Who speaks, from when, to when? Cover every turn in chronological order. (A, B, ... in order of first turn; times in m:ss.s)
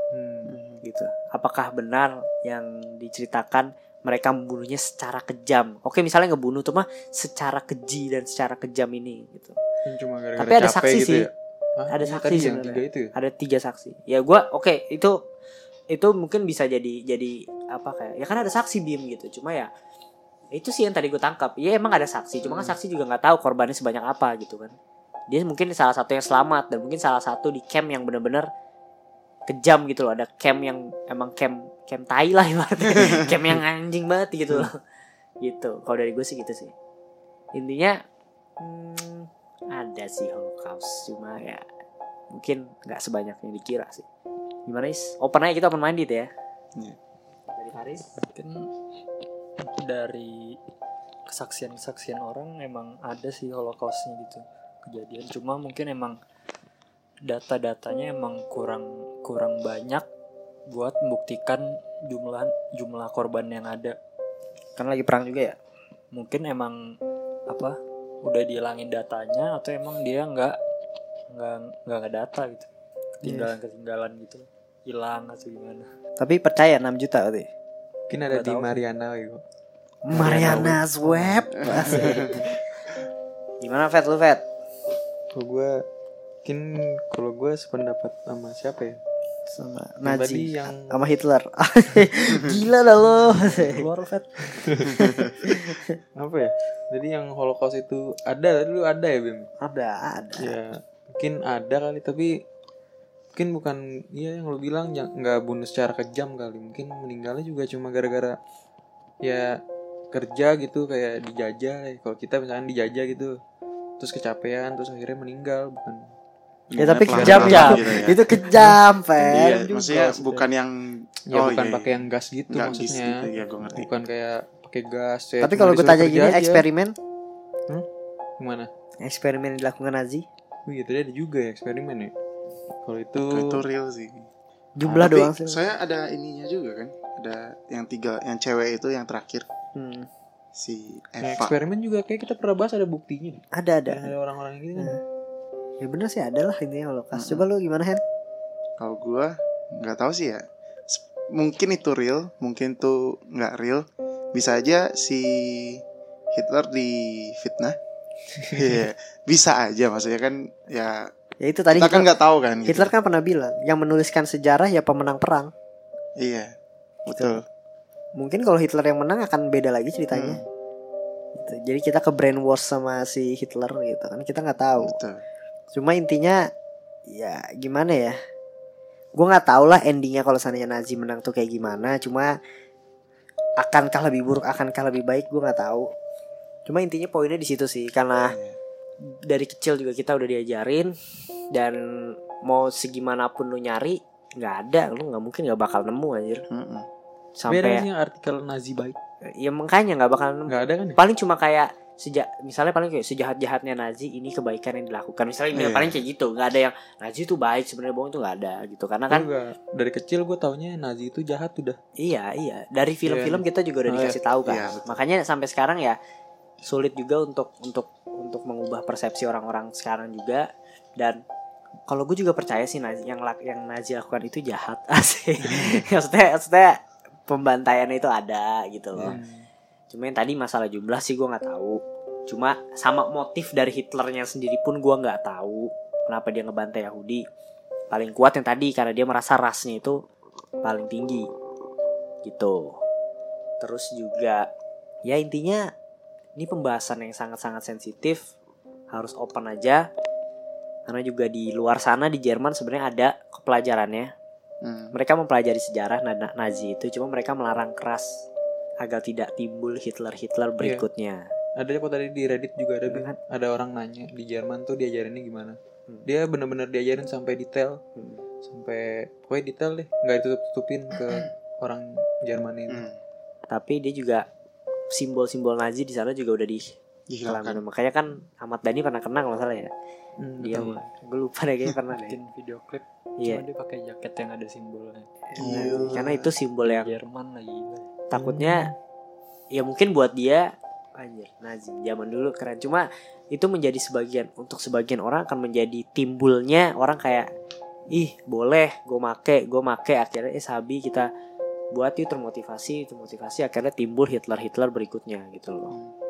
0:00.1-0:00.5 A
0:00.5-0:00.8 B
0:00.8-0:09.6 C
0:09.8-0:13.1 A
0:10.4-0:11.2 C
0:11.9-0:15.1 C
0:15.9-0:19.7 C
0:20.5-0:24.7 C
0:25.3-0:28.5 C
0:29.5-0:34.7 C
0:35.4-0:36.7 C
0:37.5-0:38.0 C
0:38.6-0:41.6 C
0:42.3-0:44.0 C
0:44.7-0:46.3 C
0:47.5-0:48.1 C
0:48.2-0:48.7 D
0:49.6-0:50.6 D
0:51.3-0:56.2 D
0:57.2-1:00.0 D
1:00.7-1:04.0 D
1:04.8-1:05.6 C
1:06.1-1:06.8 D
1:07.5-1:10.6 D
1:11.3-1:12.7 D
1:13.2-1:15.8 D
1:13.2-1:13.5 C
1:16.2-1:17.5 C
1:18.1-1:19.4 A
1:18.3-1:18.8 D
1:20.0-1:22.7 C
1:20.1-1:22.2 A
1:20.3-1:20.6 D
1:21.8-1:22.3 B
1:23.6-1:24.4 C
1:25.3-1:25.8 A
1:26.4-1:29.0 A
1:29.5-1:34.3 C
1:30.0-1:31.0 A
1:34.5-1:35.2 A
1:34.8-1:36.0 C
1:36.1-1:39.5 A
1:39.6-1:40.4 C
1:40.4-1:42.4 A
1:43.3-1:48.4 A
1:49.2-1:49.6 A
1:50.1-1:53.4 A
1:54.0-1:56.1 A
1:56.7-1:58.3 B
1:56.8-1:59.6 C
1:57.1-2:00.5 A
1:57.3-1:57.8 D
1:59.2-2:03.9 B
2:01.3-2:06.7 A
2:05.4-2:07.0 C
2:08.4-2:08.7 A
2:09.0-2:10.2 C
2:10.6-2:12.1 A
2:12.8-2:13.6 A
2:13.2-2:14.3 B
2:14.8-2:15.6 C
2:14.8-2:19.5 B
2:19.7-2:20.1 C
2:20.5-2:21.5 B
2:21.2-2:25.0 A
2:23.5-2:24.1 C
2:25.8-2:28.0 C
2:27.1-2:27.4 B
2:28.8-2:37.8 B
2:38.5-2:41.1 B
2:41.4-2:42.1 C
2:41.7-2:42.9 B
2:42.6-2:45.5 C
2:46.2-2:46.5 B
2:47.0-2:47.4 B
2:47.1-2:47.4 C
2:48.2-2:50.4 C
2:50.1-2:50.4 B
2:51.4-2:55.0 C
2:54.8-2:55.2 B
2:55.7-2:56.4 C
2:57.1-2:58.1 C
2:59.1-3:02.3 C
3:03.6-3:05.9 C
3:06.7-3:08.4 C
3:08.3-3:08.6 B
3:09.3-3:10.9 C
3:11.5-3:16.4 C
3:16.5-3:16.9 B
3:17.4-3:17.8 C
3:17.4-3:19.0 A
3:19.4-3:29.3 C
3:20.5-3:21.0 A
3:25.5-3:26.0 B
3:29.1-3:31.8 A
3:32.0-3:36.0 C
3:33.0-3:34.2 A
3:34.4-3:35.0 B
3:36.6-3:40.4 C
3:41.9-3:46.8 C
3:47.3-3:49.2 C
3:49.0-3:49.5 A
3:49.9-3:57.2 C
3:57.9-4:00.0 C
4:00.6-4:01.3 C
4:02.2-4:02.8 C
4:03.6-4:04.5 C
4:05.0-4:05.6 C
4:06.4-4:08.3 C
4:08.9-4:09.8 C
4:10.9-4:14.1 C
4:14.6-4:14.9 B
4:14.9-4:18.2 C
4:18.8-4:21.2 C
4:20.6-4:20.8 A
4:21.6-4:27.8 A
4:22.9-4:23.2 C
4:28.0-4:28.2 C
4:28.4-4:32.8 A
4:32.7-4:33.0 B
4:33.5-4:34.2 C
4:34.9-4:39.7 C
4:37.1-4:37.6 B
4:40.2-4:40.8 A
4:40.4-4:42.2 C
4:41.9-4:45.1 D
4:43.2-4:43.4 C
4:45.3-4:46.9 C
4:45.3-4:46.3 B
4:45.4-4:45.9 A
4:46.6-4:47.9 D
4:48.1-4:48.7 C
4:48.1-4:48.7 A
4:49.5-4:57.2 C
4:57.9-5:01.1 C
5:01.7-5:05.8 C